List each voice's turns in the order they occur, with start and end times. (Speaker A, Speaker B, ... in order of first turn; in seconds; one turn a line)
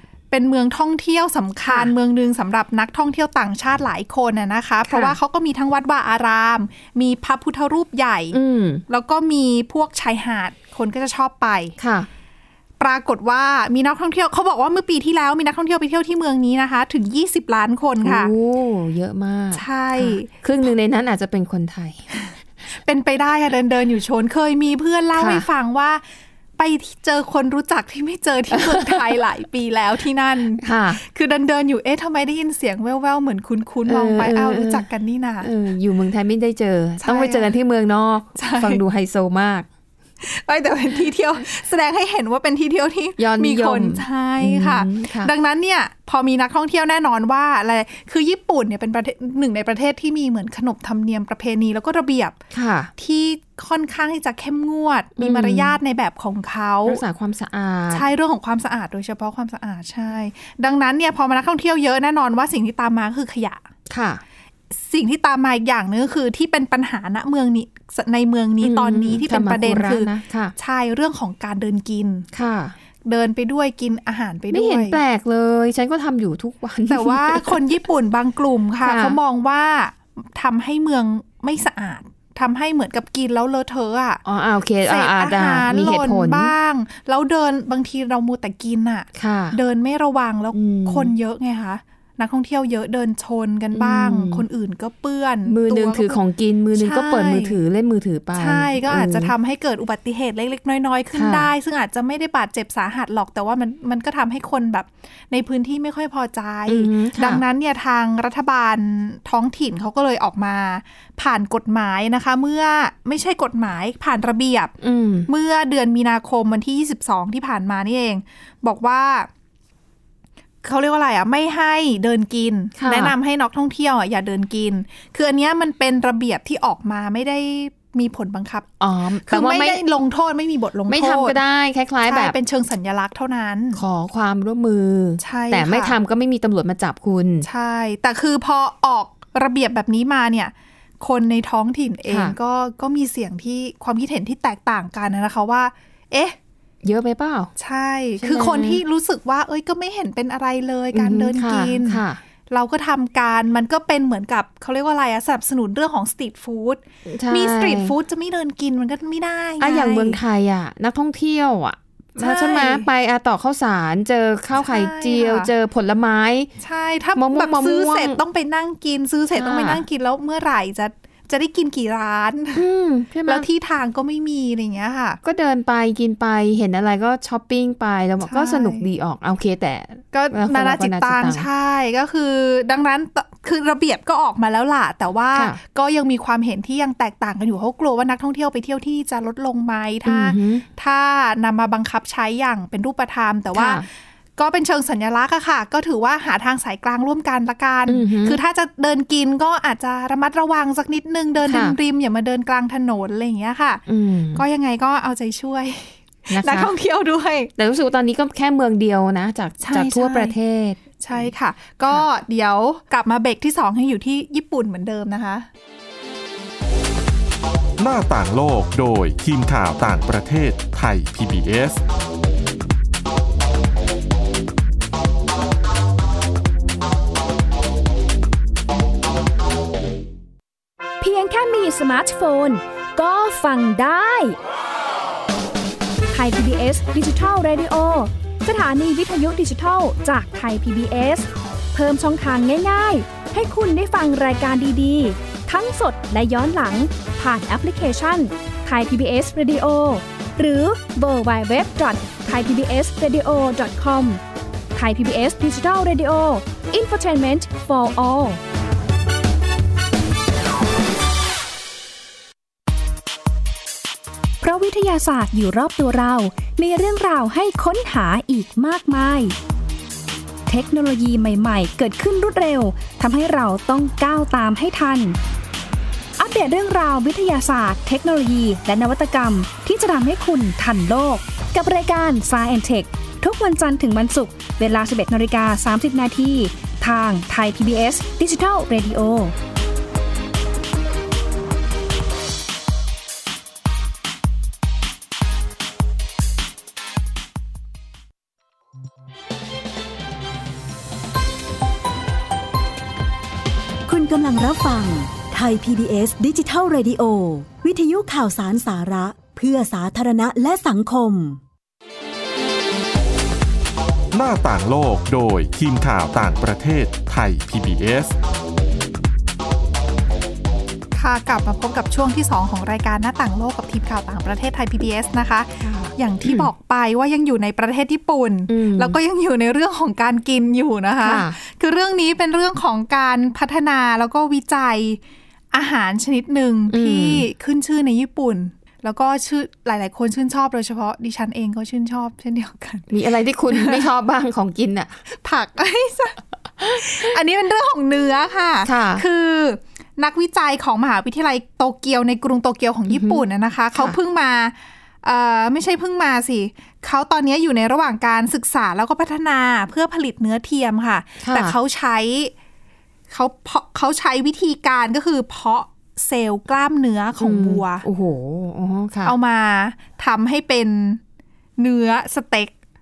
Speaker A: 0.3-11.7
Speaker B: 1.7-1.9
Speaker B: 4.9-5.2
Speaker B: 8.3-8.8
Speaker B: 11.8-12.1
Speaker A: 12.8-18.3
Speaker B: 18.0-22.1
Speaker A: 19.5-20.3
Speaker A: 22.1-26.0
Speaker B: 25.1-25.4
Speaker A: 26.6-35.5
Speaker B: 28.5-29.1
Speaker B: 30.6-31.0
Speaker B: 33.9-34.8
Speaker B: 35.4-39.7
Speaker A: 37.0-37.5
Speaker A: 38.4-38.8
Speaker A: 40.2-52.4
Speaker B: 43.2-45.3
Speaker B: 52.5-52.9
Speaker A: 53.0-57.0
Speaker B: 55.2-55.8
Speaker B: 56.9-58.1
Speaker A: 57.9-63.7
Speaker B: 63.9-64.2
Speaker A: 64.8-72.3
Speaker B: 68.6-70.5
Speaker B: 72.3-72.8
Speaker A: 73.0-75.0
Speaker B: 74.5-77.6
Speaker A: 76.9-84.2
Speaker B: 78.8-79.2
Speaker B: 84.2-86.5
Speaker A: 84.8-96.2
Speaker B: 89.1-89.6
Speaker B: 90.5-91.1
Speaker B: 93.7-94.4
Speaker B: 95.5-99.3
Speaker A: 96.7-97.6
Speaker A: 98.3-114.8
Speaker B: 101.1-101.5
Speaker B: 106.7-107.4
Speaker B: 114.8-115.3
Speaker A: 115.3-119.3
Speaker A: 120.6-128.7
Speaker B: 122.8-123.1
Speaker B: 128.8-129.8
Speaker A: 129.2-131.4
Speaker B: 130.9-132.3
Speaker A: 132.1-133.8
Speaker B: 133.7-137.5
Speaker A: 135.2-135.9
Speaker A: 137.4-146.4
Speaker B: 142.1-142.3
Speaker B: 146.8-147.5
Speaker A: 147.6-160.2
Speaker B: 148.2-148.8
Speaker B: 150.9-152.2
Speaker B: 157.1-157.9
Speaker B: 159.6-166.5
Speaker A: 162.2-162.9
Speaker A: 164.6-165.5
Speaker A: 166.6-172.6
Speaker B: 167.2-168.2
Speaker B: 169.3-169.8
Speaker B: 172.5-173.5
Speaker A: 173.2-175.2
Speaker B: 175.2-181.5
Speaker A: 178.2-178.8
Speaker A: 180.1-203.8
Speaker B: 190.1-190.6
Speaker B: 193.5-193.8
Speaker B: 197.9-198.4
Speaker B: 201.4-201.7
Speaker B: 203.8-204.4
Speaker A: 204.3-207.5
Speaker B: 206.3-206.7
Speaker B: 207.6-211.3
Speaker A: 209.6-210.3
Speaker A: 211.0-215.5
Speaker C: 217.8-221.8
Speaker D: 231.0-234.4
Speaker D: 236.1-254.2
Speaker D: 254.7-258.4
Speaker D: 264.4-269.3
Speaker D: 270.5-275.2
Speaker D: 276.2-289.3
Speaker E: 303.9-311.4
Speaker C: 314.1-318.1
Speaker A: 320.9-335.0
Speaker B: 325.6-326.5
Speaker B: 328.5-329.0
Speaker B: 331.0-331.4
Speaker A: 335.5-342.9
Speaker B: 336.7-337.2
Speaker B: 342.9-345.0
Speaker A: 343.5-343.8
Speaker A: 345.1-362.3
Speaker B: 348.6-349.0
Speaker B: 352.9-353.9
Speaker B: 361.2-361.6
Speaker A: 363.1-367.9
Speaker B: 367.2-369.1
Speaker A: 369.0-371.0
Speaker A: 371.6-372.5